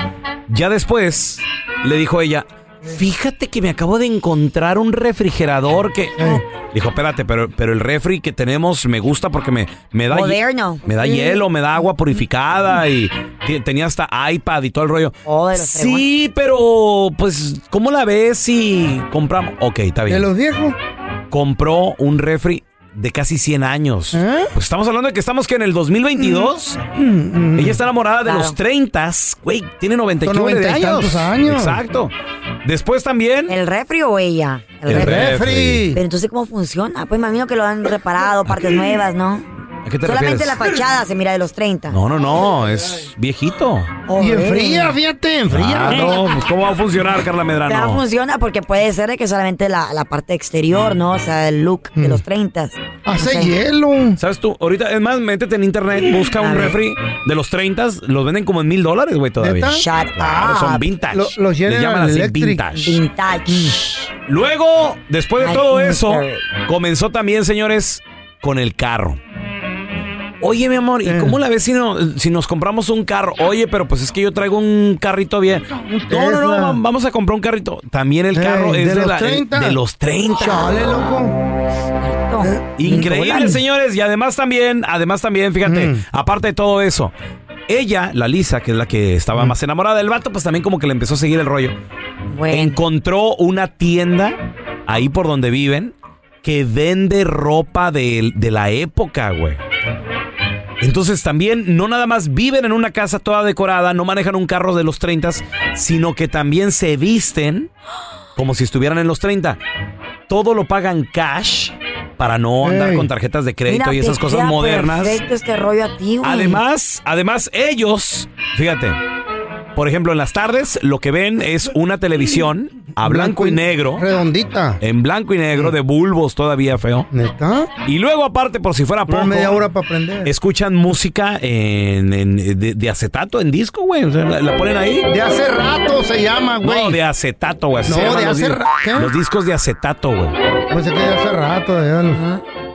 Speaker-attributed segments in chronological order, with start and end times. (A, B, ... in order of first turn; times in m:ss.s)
0:00.5-0:20.3 A
0:10.1-0:11.4 B
0:15.2-0:16.1 B
0:20.1-0:20.8 C
0:21.3-0:26.8 A
0:24.1-0:24.5 C
0:26.2-0:27.8 C
0:27.6-0:32.1 A
0:28.2-0:28.6 B
0:30.2-0:31.8 C
0:32.6-0:33.5 A
0:33.5-0:35.4 B
0:34.9-0:35.9 A
0:34.9-0:36.0 C
0:35.9-0:39.5 B
0:38.4-0:38.8 A
0:39.8-0:40.8 A
0:40.0-0:42.0 B
0:41.9-0:44.0 A
0:44.1-0:44.9 B
0:44.2-0:46.2 C
0:45.5-0:48.0 A
0:47.7-0:53.5 B
0:52.0-0:52.2 C
0:53.0-0:54.2 C
0:54.2-1:03.0 A
0:56.4-0:56.8 B
0:59.4-1:02.6 C
0:59.6-1:00.8 B
1:02.7-1:03.8 B
1:03.5-1:03.8 C
1:04.0-1:09.2 A
1:05.4-1:06.5 B
1:10.4-1:20.8 A
1:11.0-1:11.4 C
1:15.7-1:16.8 C
1:18.3-1:19.8 C
1:20.3-1:21.4 C
1:22.0-1:23.6 B
1:22.4-1:22.9 C
1:22.8-1:27.1 A
1:25.6-1:26.0 C
1:27.7-1:31.8 A
1:32.3-1:32.8 B
1:32.5-1:39.6 A
1:40.8-1:47.7 A
1:48.4-1:49.6 A
1:50.3-1:55.2 A
1:52.6-1:53.1 C
1:53.6-1:56.6 B
1:56.2-1:59.0 A
1:59.8-2:04.0 A
2:03.0-2:04.8 C
2:04.8-2:07.1 A
2:07.1-2:07.7 C
2:07.8-2:09.6 A
2:09.1-2:10.3 C
2:10.2-2:15.1 A
2:15.1-2:17.0 C
2:16.6-2:20.4 A
2:17.8-2:19.1 C
2:20.7-2:22.2 C
2:22.1-2:22.4 B